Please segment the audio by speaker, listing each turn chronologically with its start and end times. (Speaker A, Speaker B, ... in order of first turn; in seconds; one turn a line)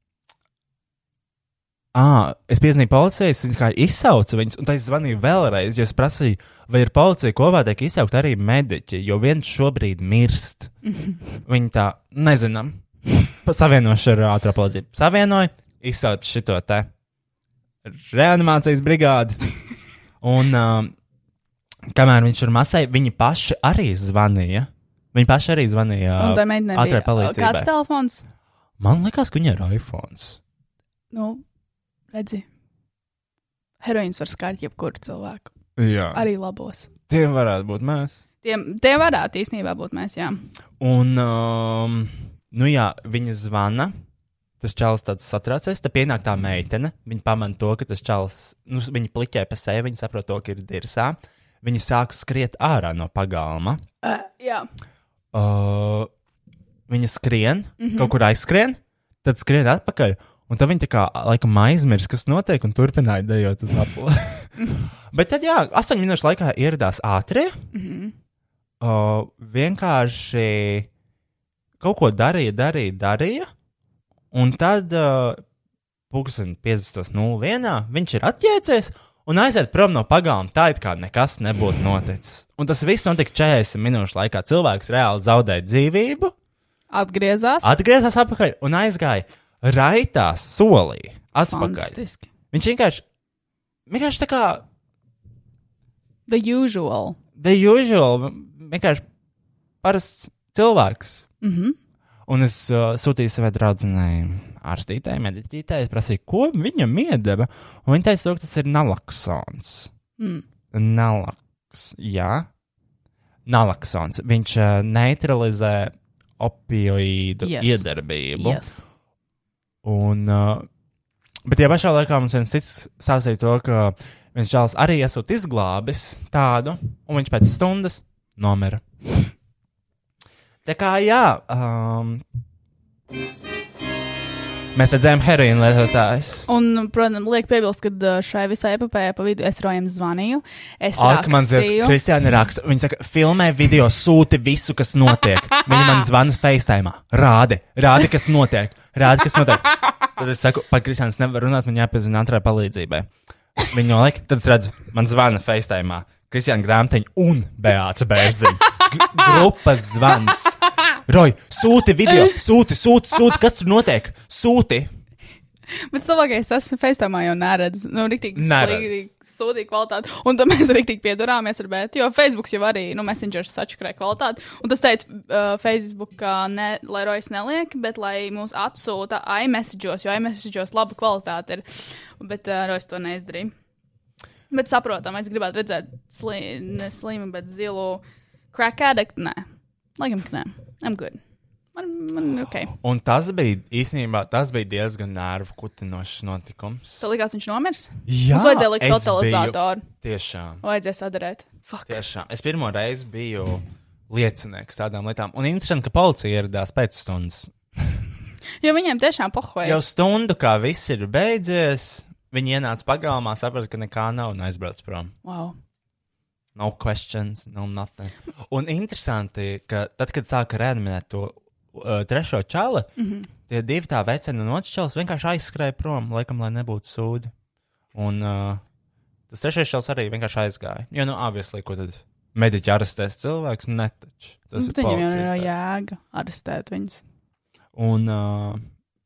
Speaker A: 1.9-10.7
Speaker B: 10.8-11.2
Speaker A: 11.5-16.9
Speaker A: 17.9-19.4
Speaker A: 20.2-20.9
Speaker A: 21.9-27.7
Speaker B: 26.2-28.2
Speaker A: 28.8-30.4
Speaker B: 31.1-31.4
Speaker B: 32.1-32.5
Speaker B: 33.8-35.5
Speaker A: 35.8-36.2
Speaker B: 36.1-36.9
Speaker A: 37.1-38.2
Speaker B: 38.4-40.5
Speaker A: 40.8-43.9
Speaker A: 44.6-53.8
Speaker B: 54.0-54.7
Speaker A: 55.3-56.1
Speaker A: 56.9-64.5
Speaker B: 57.8-58.1
Speaker A: 65.1-67.6
Speaker B: 67.7-68.1
Speaker A: 68.8-70.9
Speaker A: 71.8-73.5
Speaker A: 74.3-75.4
Speaker A: 76.1-86.3
Speaker B: 86.9-87.7
Speaker A: 87.6-92.0
Speaker B: 91.5-92.3
Speaker A: 92.5-93.0
Speaker A: 93.9-94.6
Speaker B: 96.3-97.2
Speaker A: 97.4-99.0
Speaker A: 99.8-101.3
Speaker B: 101.4-101.8
Speaker A: 102.3-109.9
Speaker B: 110.2-110.4
Speaker A: 110.7-112.5
Speaker A: 113.5-118.6
Speaker B: 117.4-118.8
Speaker A: 119.8-120.7
Speaker A: 121.5-128.8
Speaker A: 130.7-132.2
Speaker A: 134.8-136.5
Speaker B: 136.5-142.0
Speaker A: 141.0-164.9
Speaker B: 165.9-181.6
Speaker A: 168.3-169.1
Speaker B: 182.2-183.5
Speaker B: 184.5-189.4
Speaker B: 190.0-191.2
Speaker B: 191.8-192.7
Speaker A: 192.8-197.1
Speaker B: 197.0-199.9
Speaker A: 198.1-200.6
Speaker B: 200.6-202.0
Speaker A: 201.9-207.5
Speaker B: 208.6-209.8
Speaker A: 209.6-215.1
Speaker B: 215.2-215.6
Speaker A: 216.6-222.9
Speaker B: 223.0-223.3
Speaker A: 223.5-227.3
Speaker A: 227.9-228.6
Speaker A: 229.3-235.5
Speaker B: 234.6-237.0
Speaker A: 237.8-238.7